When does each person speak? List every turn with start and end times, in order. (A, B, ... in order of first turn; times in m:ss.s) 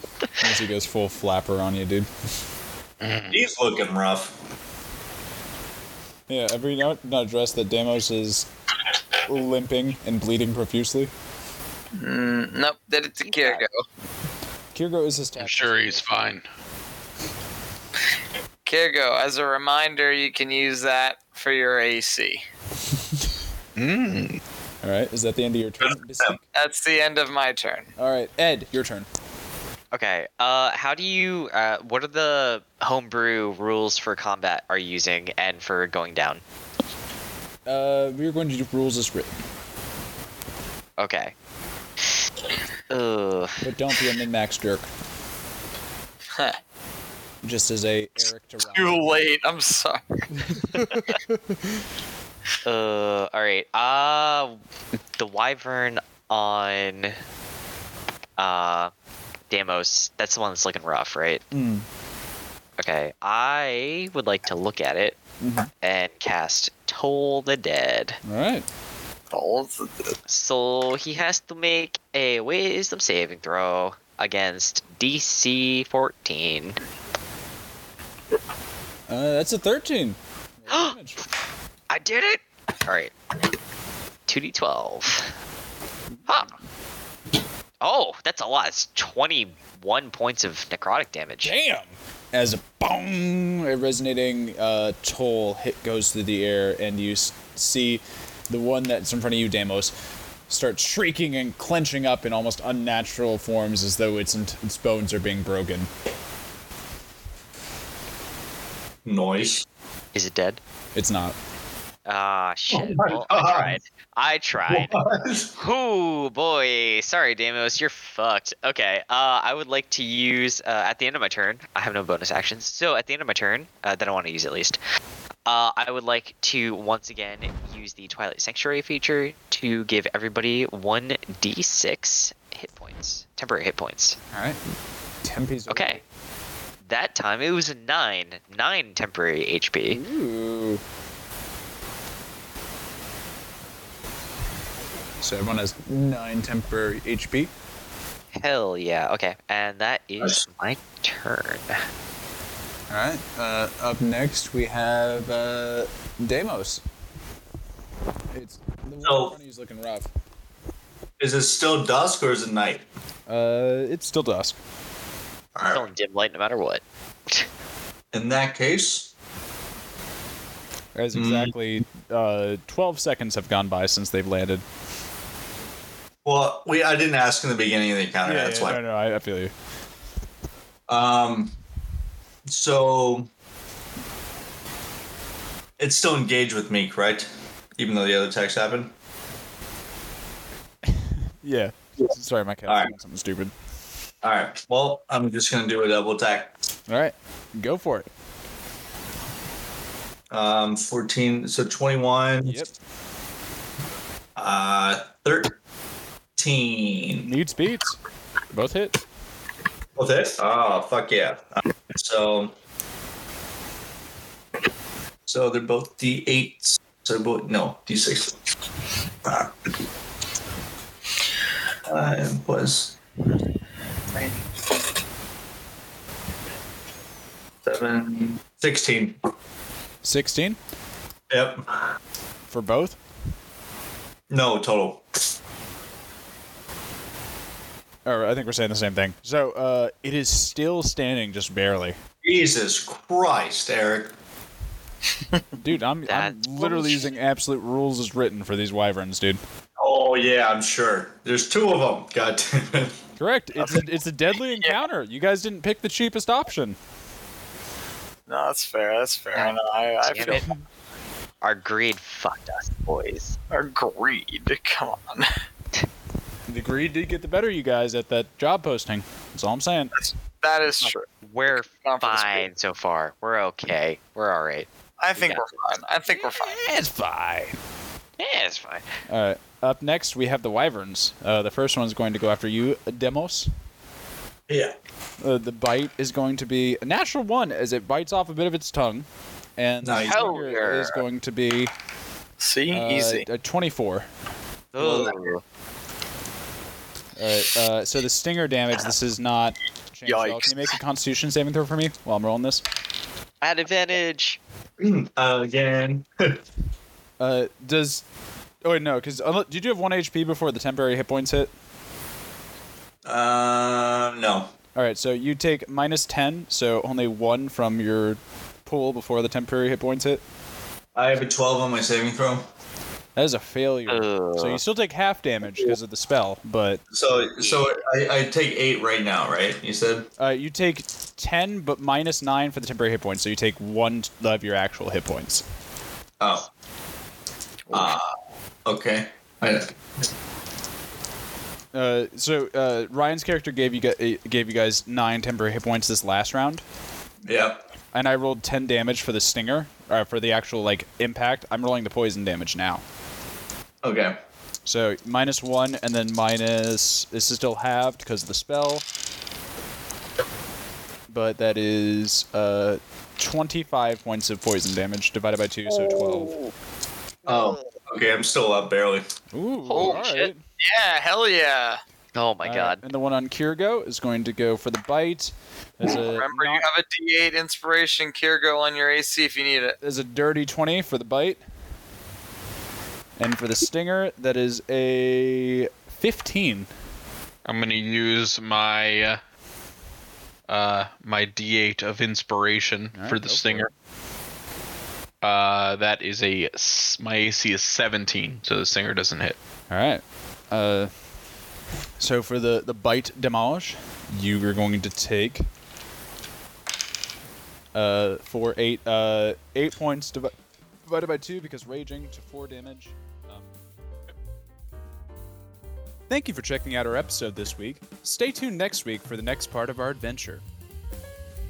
0:00.4-0:02.1 A
0:03.0-0:03.4 B
0:03.3-0:04.4 C
0:06.3-0:08.5 A
0:09.2-0:11.1 A
0:12.0-0:13.7 D
0:13.3-0:13.6 E
0:14.8-0:16.1 A
0:15.4-0:16.4 B
0:18.6-0:22.4 D
0:23.8-0:24.4 B
0:24.8-0:26.4 A
0:25.8-0:26.4 C
0:26.6-0:27.9 D
0:28.0-0:29.1 A
0:29.9-0:36.4 E
0:37.7-0:39.4 A
0:41.0-0:41.3 E
0:42.9-0:43.6 E
0:43.6-0:44.9 A
0:46.3-0:46.6 D
0:47.4-0:49.2 A
0:48.7-0:51.2 D
0:50.7-0:51.6 A
0:52.6-0:54.6 E
0:55.2-0:57.2 E
0:58.4-0:58.9 E
0:59.5-1:01.4 E
1:01.5-1:01.9 A
1:02.8-1:05.2 E
1:05.4-1:05.7 A
1:05.8-1:08.2 E
1:08.2-1:08.7 A
1:09.3-1:10.2 D
1:10.3-1:16.8 E
1:19.1-1:21.2 A
1:20.7-1:21.0 E
1:21.9-1:23.1 E
1:24.3-1:25.3 E
1:26.1-1:26.5 A
1:26.3-1:26.5 E
1:27.8-1:31.5 E
1:31.4-1:39.9 A
1:40.5-1:45.9 A
1:49.0-1:49.7 C
1:50.2-1:50.6 E
1:51.0-1:51.4 A
1:52.1-1:55.0 E
1:52.7-1:53.8 C
1:54.7-1:55.5 C
1:55.6-2:04.8 E
2:05.5-2:14.2 E
2:14.3-2:14.6 A
2:15.2-2:16.0 A
2:15.7-2:16.0 E
2:16.8-2:20.0 E
2:19.9-2:20.8 A
2:25.2-2:27.5 A
2:28.3-2:31.8 E
2:32.9-2:36.8 A
2:38.3-2:40.1 A
2:39.0-2:39.4 C
2:41.2-2:42.8 C
2:43.3-2:44.6 A
2:45.6-2:45.8 C
2:45.7-2:47.5 E
2:48.1-2:49.1 C
2:51.0-2:54.6 A
2:51.1-2:51.5 C
2:56.2-2:58.8 C
2:58.2-2:59.5 A
3:00.9-3:01.6 C
3:02.5-3:03.3 C
3:05.8-3:08.9 C
3:10.8-3:13.5 A
3:12.7-3:12.9 C
3:14.2-3:16.6 C
3:16.9-3:18.1 A
3:20.3-3:22.6 C
3:22.4-3:22.7 A
3:24.4-3:25.6 C
3:26.4-3:27.3 C
3:27.2-3:28.0 A
3:28.5-3:29.0 A
3:30.0-3:32.5 C
3:35.3-3:38.4 C
3:39.2-3:39.5 C
3:41.9-3:43.0 C
3:47.6-3:49.2 C
3:50.0-3:50.6 A
3:51.3-3:52.0 C
3:52.5-3:53.0 A
3:54.3-3:55.0 C
3:58.1-4:02.0 A
4:02.2-4:04.1 C
4:05.6-4:09.4 A
4:06.1-4:07.1 E
4:09.8-4:13.0 C
4:13.2-4:16.8 A
4:18.3-4:20.5 D
4:19.3-4:20.5 E
4:21.4-4:23.4 E
4:23.5-4:25.3 D
4:26.5-4:29.9 A
4:30.0-4:32.5 D
4:30.8-4:35.5 E
4:35.0-4:36.6 D
4:36.1-4:37.6 A
4:38.2-4:38.9 E
4:39.1-4:43.5 A
4:44.5-4:44.7 C
4:45.2-4:49.1 A
4:49.6-4:51.7 A
4:49.8-4:50.2 C
4:50.1-4:51.0 D
4:52.4-4:53.2 D
4:52.7-4:54.1 A
4:54.7-4:55.4 E
4:54.8-4:55.2 C
4:57.2-5:02.6 A
5:00.1-5:00.7 D
5:03.4-5:04.4 E
5:04.8-5:06.4 C
5:07.2-5:08.0 A
5:08.6-5:11.5 A
5:13.0-5:14.5 C
5:14.8-5:20.2 A
5:21.0-5:22.4 C
5:23.2-5:26.8 A
5:23.9-5:24.6 E
5:26.9-5:30.1 C
5:27.4-5:27.7 E
5:30.2-5:35.4 A
5:36.2-5:36.5 C
5:37.7-5:38.1 C
5:38.7-5:39.8 C
5:41.7-5:46.6 A
5:47.2-5:47.6 C
5:47.9-5:52.8 A
5:53.8-5:54.2 C
5:54.7-5:58.8 A
6:01.1-6:06.3 A
6:07.2-6:07.6 E
6:07.3-6:09.1 C
6:09.3-6:10.4 A
6:09.7-6:10.3 E
6:09.8-6:10.0 D
6:10.6-6:11.8 D
6:12.2-6:12.8 E
6:12.4-6:16.7 A
6:15.9-6:19.8 D
6:19.8-6:21.4 A
6:23.2-6:26.7 A
6:27.4-6:29.2 B
6:30.5-6:33.7 B
6:32.9-6:33.7 A
6:35.2-6:39.4 B
6:39.7-6:40.9 A
6:42.0-6:45.5 A
6:47.8-6:53.5 A
6:56.1-7:00.4 A